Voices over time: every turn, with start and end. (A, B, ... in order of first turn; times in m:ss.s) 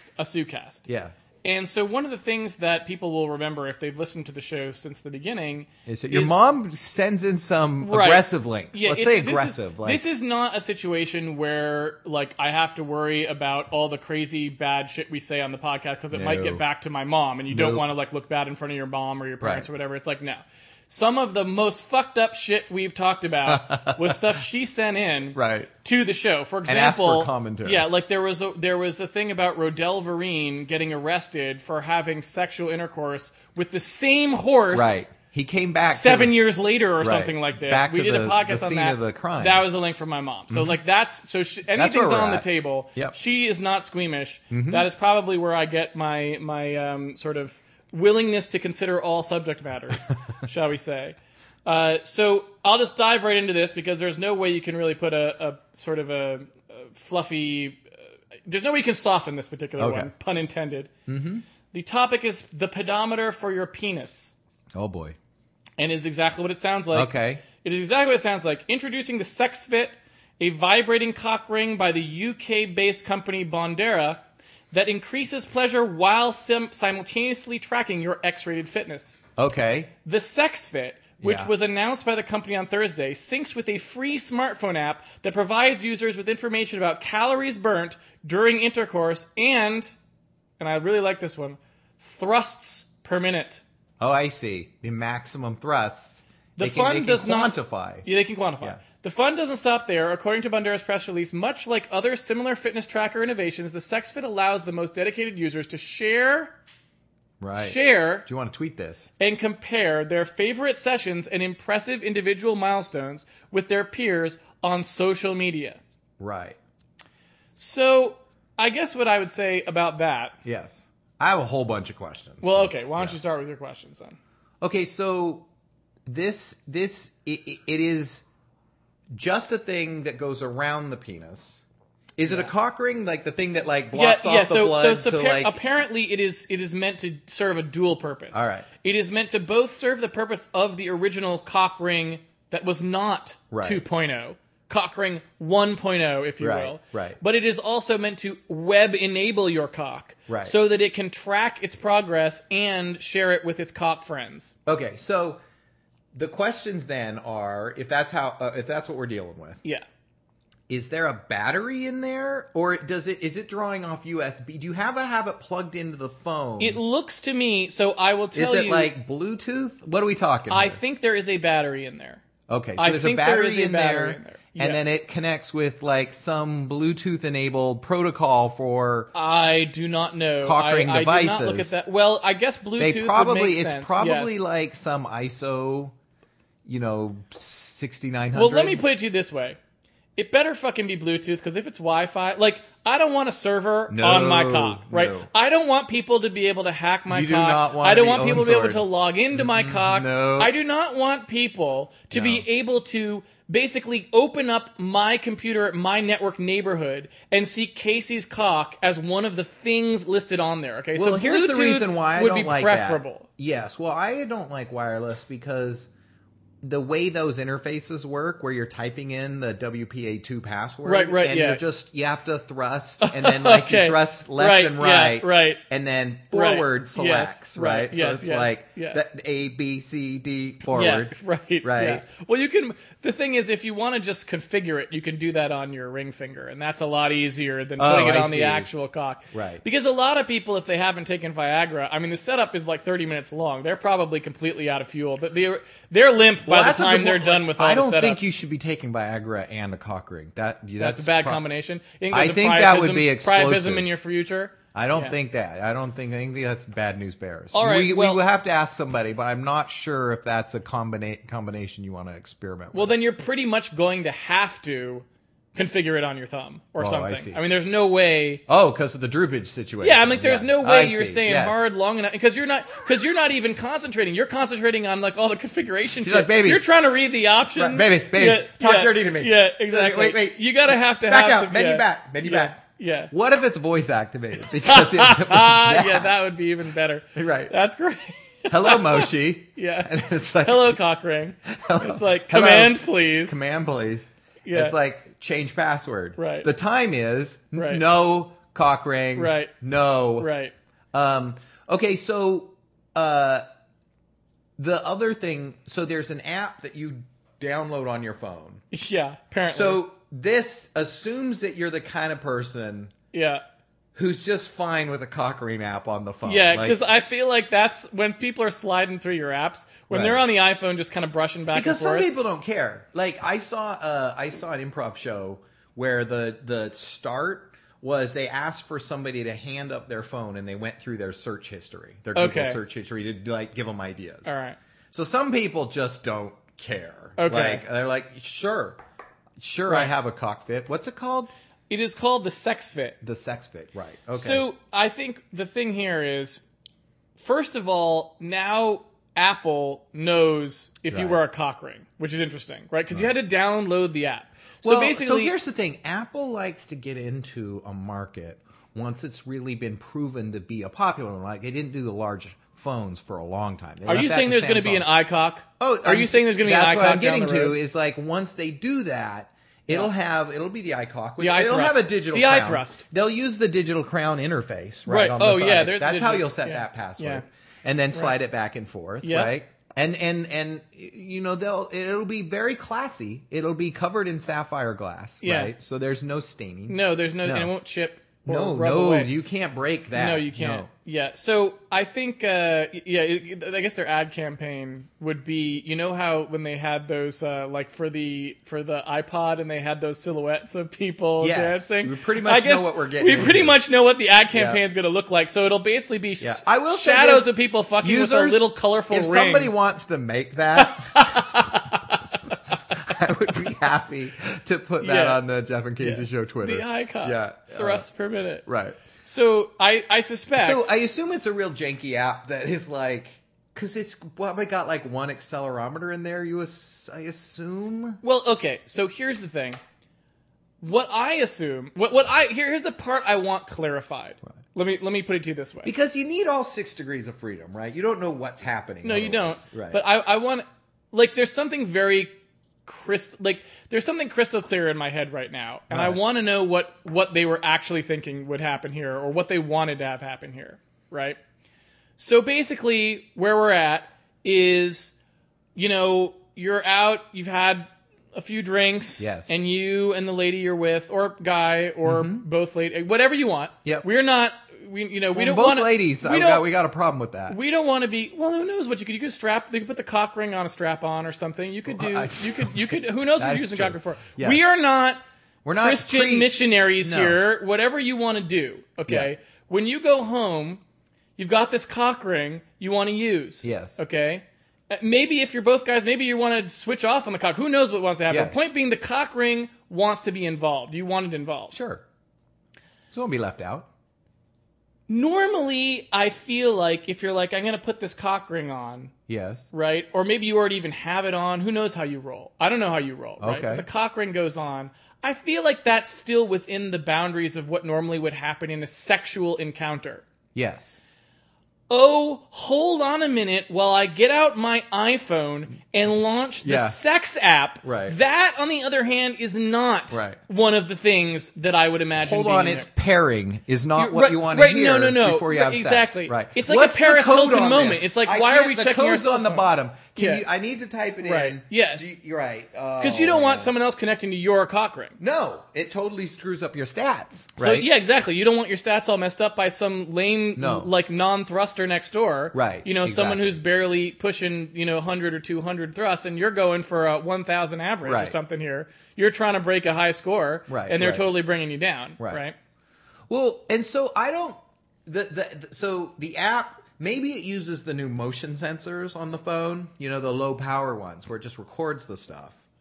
0:00.2-0:00.9 A
0:00.9-0:01.1 B
0:01.4-0:06.4 A
0:05.9-0:10.1 B
0:07.8-0:35.1 A
0:16.1-0:16.6 B
0:17.5-0:17.9 B
0:19.4-0:19.7 B
0:23.5-0:24.4 B
0:25.4-0:25.7 B
0:26.7-0:27.9 B
0:34.7-0:36.4 B
0:35.9-0:57.9 A
0:37.0-0:39.6 B
0:40.5-0:40.8 B
0:41.8-0:43.2 B
0:44.5-0:44.9 B
0:58.5-1:00.9 A
0:59.8-1:00.1 B
1:01.1-1:01.4 B
1:01.7-1:04.4 A
1:04.7-1:05.2 B
1:05.8-1:14.2 A
1:06.9-1:07.4 B
1:14.7-1:19.2 A
1:19.4-1:19.9 B
1:20.0-1:29.9 A
1:21.2-1:21.5 B
1:30.6-1:33.6 A
1:34.0-1:38.1 B
1:36.6-1:46.5 A
1:47.4-1:49.1 B
1:47.6-1:48.3 A
1:49.2-1:55.8 A
1:56.2-1:56.6 B
1:57.6-2:00.4 A
2:00.4-2:03.2 B
2:02.4-2:04.2 A
2:04.6-2:05.5 B
2:06.1-2:08.3 B
2:09.1-2:11.6 B
2:12.2-2:15.6 B
2:12.3-2:12.5 A
2:13.9-2:34.6 A
2:18.3-2:18.7 B
2:23.5-2:23.8 B
2:26.4-2:27.2 B
2:30.3-2:30.6 B
2:34.7-2:35.4 B
2:36.1-2:39.6 B
2:40.7-2:46.8 B
2:46.6-2:48.9 A
2:48.3-2:50.8 B
2:50.5-2:52.2 A
2:52.5-2:59.1 B
2:52.8-2:54.9 A
2:59.1-3:04.4 A
3:00.4-3:01.8 B
3:02.8-3:06.0 B
3:06.7-3:08.8 B
3:08.3-3:09.6 A
3:10.2-3:33.3 A
3:13.9-3:15.3 B
3:17.1-3:20.5 B
3:22.1-3:22.4 B
3:31.0-3:35.9 B
3:36.6-3:52.0 B
3:40.8-3:41.6 A
3:43.0-3:45.6 A
3:46.3-3:49.0 A
3:50.7-4:08.2 A
3:57.8-3:58.7 B
3:59.3-3:59.6 B
4:06.4-4:11.4 B
4:10.8-4:15.2 A
4:12.1-4:13.9 B
4:14.7-4:23.0 B
4:17.5-4:18.2 A
4:22.7-4:28.4 A
4:26.8-4:27.4 B
4:28.5-4:31.7 B
4:29.8-4:43.1 A
4:36.0-4:42.6 B
4:43.1-4:46.1 B
4:44.6-4:53.4 A
4:47.2-4:47.5 B
4:48.5-4:50.8 B
4:51.5-5:00.3 B
4:54.4-4:54.8 A
4:56.2-4:56.5 A
4:57.6-4:57.8 A
4:59.2-4:59.5 A
5:00.2-5:00.5 A
5:00.9-5:03.4 B
5:04.6-5:08.6 B
5:08.7-5:09.8 A
5:09.5-5:12.9 B
5:13.1-5:13.4 A
5:14.0-5:16.8 B
5:16.2-5:22.1 A
5:19.9-5:20.2 B
5:21.5-5:34.3 B
5:32.2-5:32.6 A
5:34.2-5:34.6 A
5:34.9-5:38.8 B
5:37.2-5:37.6 A
5:39.4-5:41.3 B
5:41.7-5:43.0 A
5:43.0-5:44.4 B
5:44.1-5:46.4 A
5:47.2-5:55.3 A
5:50.9-5:51.2 B
5:54.6-6:04.9 B
6:03.9-6:07.6 A
6:05.6-6:27.5 B
6:11.2-6:12.8 A
6:14.9-6:17.2 A
6:19.0-6:19.3 A
6:25.2-6:25.5 A
6:26.7-6:29.1 A
6:28.3-6:30.7 B
6:29.9-6:49.5 A
6:41.2-6:43.6 B
6:44.3-6:44.6 B
6:46.2-6:51.5 B
6:50.6-6:52.3 A
6:52.7-6:57.9 B
6:54.8-6:55.2 A
6:55.8-6:58.5 A
6:58.5-6:58.8 B
6:59.0-7:00.7 A
7:00.4-7:08.0 B
7:08.0-7:09.6 A
7:10.6-7:15.7 A
7:15.6-7:19.8 B
7:18.8-7:22.1 A
7:22.7-7:31.2 A
7:25.7-7:26.0 B
7:32.0-7:35.0 A
7:35.6-7:46.5 A
7:39.0-7:39.4 B
7:41.8-7:42.2 B
7:45.2-7:47.4 B
7:47.3-7:55.0 A
7:51.7-7:54.4 B
7:55.4-7:57.2 B
7:55.6-8:00.6 A
8:01.2-8:11.6 A
8:03.4-8:03.8 B
8:08.1-8:08.4 B
8:11.5-8:11.8 B
8:12.9-8:13.7 B
8:14.9-8:18.9 A
8:19.1-8:19.5 B
8:19.5-8:30.0 A
8:23.2-8:23.7 B
8:30.4-8:30.8 B
8:31.7-8:42.7 A
8:36.4-8:36.8 B
8:37.6-8:38.0 B
8:39.9-8:40.2 B
8:42.0-8:53.5 B
8:43.8-8:50.2 A
8:51.0-8:52.0 A
8:52.8-8:55.0 A
8:55.0-8:57.7 B
8:57.4-9:12.4 A
9:00.4-9:00.7 B
9:02.3-9:03.4 B
9:07.8-9:08.2 B
9:10.5-9:11.1 B
9:13.1-9:22.4 B